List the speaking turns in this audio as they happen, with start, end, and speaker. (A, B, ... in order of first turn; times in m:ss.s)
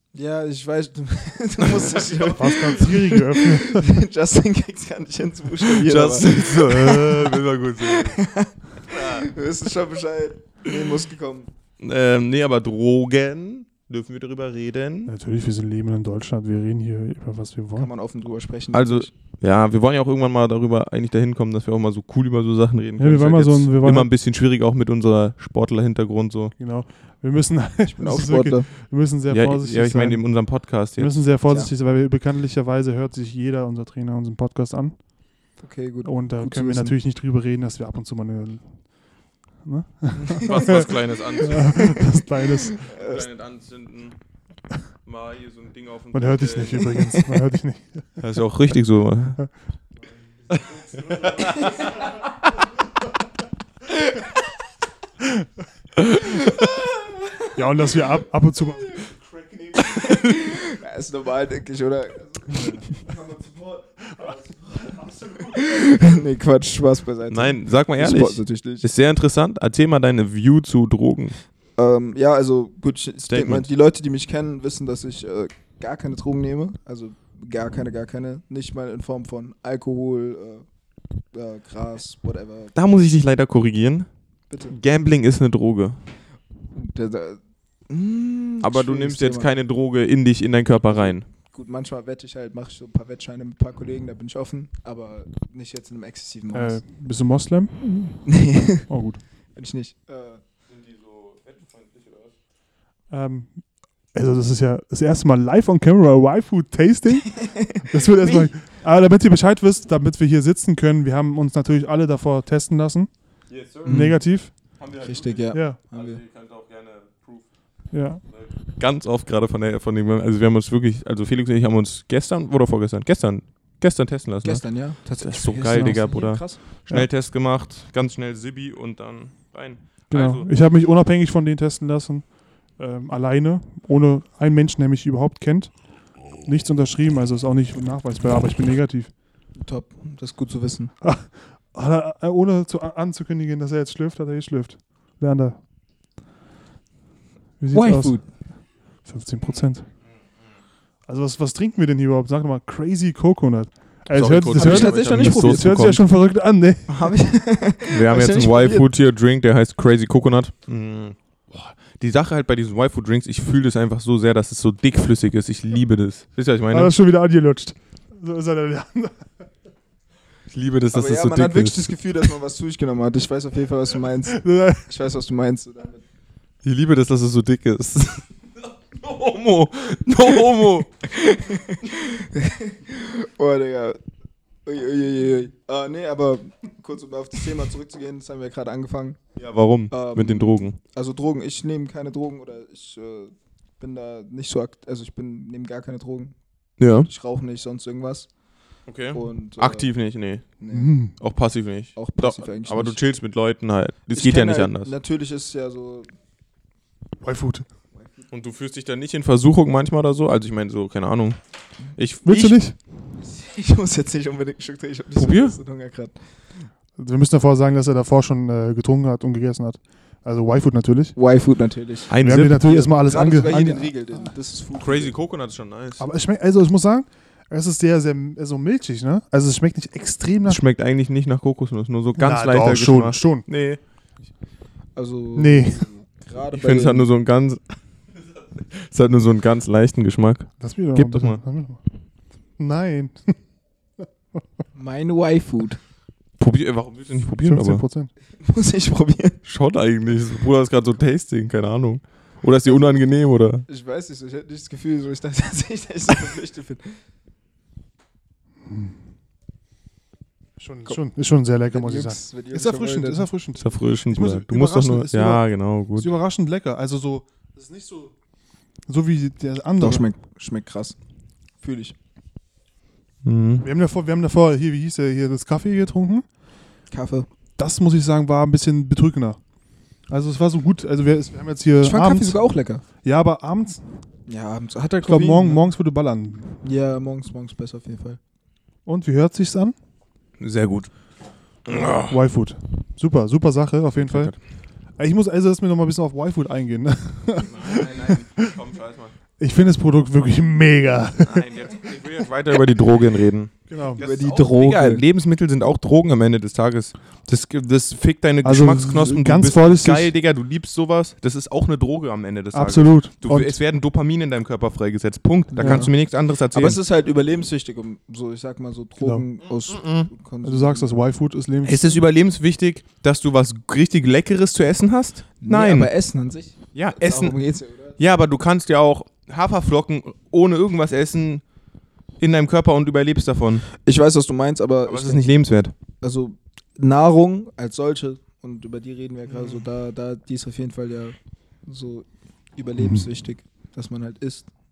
0:00.1-0:11.5 A
0:01.6-0:02.3 B
0:02.3-0:03.9 C
0:05.7-0:08.2 B
0:08.9-0:09.3 B
0:11.8-0:15.1 B
0:15.1-0:17.9 C
0:17.8-0:19.1 A
0:18.7-0:26.5 B
0:23.0-0:24.1 C
0:26.6-0:35.2 C
0:27.9-0:28.7 A
0:29.3-0:31.3 B
0:35.6-0:36.9 A
0:36.0-0:42.8 C
0:40.2-0:40.9 A
0:40.4-0:42.0 B
0:41.7-0:42.1 A
0:42.8-0:44.2 B
0:42.8-0:43.2 A
0:45.0-0:47.0 B
0:46.1-0:48.2 C
0:47.0-0:47.3 A
0:48.2-0:49.5 B
0:50.5-0:51.9 B
0:51.0-0:51.5 C
0:51.5-0:51.9 A
0:56.2-0:57.3 A
0:57.5-0:59.6 C
0:59.7-1:08.9 A
1:02.5-1:02.8 C
1:05.1-1:05.6 C
1:07.3-1:11.4 B
1:11.8-1:20.6 A
1:13.3-1:13.7 B
1:21.3-1:22.7 A
1:22.7-1:24.1 B
1:24.5-1:24.8 A
1:24.7-1:26.0 B
1:26.7-1:29.5 A
1:28.6-1:31.2 B
1:30.8-1:36.8 A
1:36.5-1:38.2 C
1:38.2-1:38.9 A
1:38.9-1:39.2 C
1:39.5-1:40.4 A
1:40.7-1:42.3 B
1:43.1-1:54.6 C
1:47.3-1:48.5 A
1:53.5-1:57.5 B
1:53.8-1:56.2 A
1:55.5-1:55.8 C
1:57.9-1:58.2 C
1:58.2-2:10.5 B
2:04.4-2:06.6 A
2:05.7-2:06.0 C
2:10.1-2:19.1 C
2:19.5-2:20.9 A
2:21.0-2:25.6 C
2:27.6-2:29.9 C
2:27.7-2:28.2 A
2:31.1-2:37.1 C
2:34.1-2:36.0 B
2:34.5-2:36.0 A
2:36.9-2:38.9 A
2:37.9-2:46.9 B
2:46.7-2:49.4 C
2:50.5-2:51.9 B
2:50.9-2:56.0 A
2:54.3-2:54.8 C
2:56.6-2:58.3 B
2:58.9-3:01.0 B
3:01.1-3:04.0 A
3:04.6-3:09.2 A
3:09.4-3:10.8 B
3:09.9-3:16.3 A
3:16.8-3:17.1 B
3:16.9-3:18.3 A
3:18.9-3:20.5 B
3:19.1-3:19.9 A
3:20.6-3:20.9 A
3:20.7-3:21.1 C
3:21.2-3:24.9 B
3:21.9-3:23.0 A
3:24.1-3:26.1 A
3:27.2-3:27.6 C
3:27.9-3:28.3 A
3:28.3-3:31.4 B
3:31.9-3:32.6 B
3:32.2-3:32.8 C
3:33.2-3:36.2 A
3:35.2-3:35.6 B
3:37.0-3:41.2 C
3:41.2-3:45.1 A
3:42.1-3:42.7 B
3:42.2-3:44.3 C
3:44.7-3:46.0 B
3:46.0-3:50.6 C
3:50.4-3:53.8 B
3:52.2-3:53.5 C
3:55.0-3:57.1 A
3:55.4-3:55.8 C
3:56.5-3:57.8 B
3:58.4-4:01.4 B
4:00.6-4:01.8 C
4:02.6-4:03.4 C
4:04.7-4:05.8 A
4:06.4-4:07.8 B
4:07.4-4:08.1 C
4:08.4-4:09.4 A
4:09.4-4:13.6 B
4:12.6-4:13.0 A
4:13.6-4:17.0 A
4:18.6-4:19.0 C
4:20.6-4:28.1 C
4:21.7-4:23.3 A
4:23.6-4:26.1 B
4:28.9-4:30.0 C
4:29.8-4:31.0 A
4:31.6-4:32.0 A
4:33.2-4:33.6 B
4:33.6-4:36.2 C
4:36.9-4:37.3 A
4:37.6-4:39.4 C
4:40.1-4:42.4 C
4:41.8-4:42.8 A
4:43.0-4:44.0 C
4:44.3-4:45.7 A
4:45.0-4:46.6 C
4:46.6-4:48.2 A
4:48.8-4:49.7 C
4:50.4-4:50.9 B
4:51.6-4:52.2 B
4:52.1-4:54.4 C
4:54.0-4:54.4 B
4:55.0-4:58.4 C
4:57.4-4:59.1 B
4:59.4-5:01.5 C
5:01.2-5:16.8 B
5:03.7-5:04.0 C
5:04.0-5:05.0 A
5:08.4-5:10.1 C
5:12.5-5:13.6 C
5:15.5-5:20.9 A
5:15.6-5:15.9 C
5:19.6-5:20.1 B
5:20.4-5:22.0 C
5:21.6-5:25.9 B
5:25.4-5:28.0 A
5:26.7-5:27.4 B
5:28.0-5:31.4 B
5:32.2-5:33.7 B
5:33.8-5:35.3 A
5:34.8-5:35.7 B
5:36.0-5:44.5 A
5:39.3-5:39.6 B
5:42.8-5:43.0 C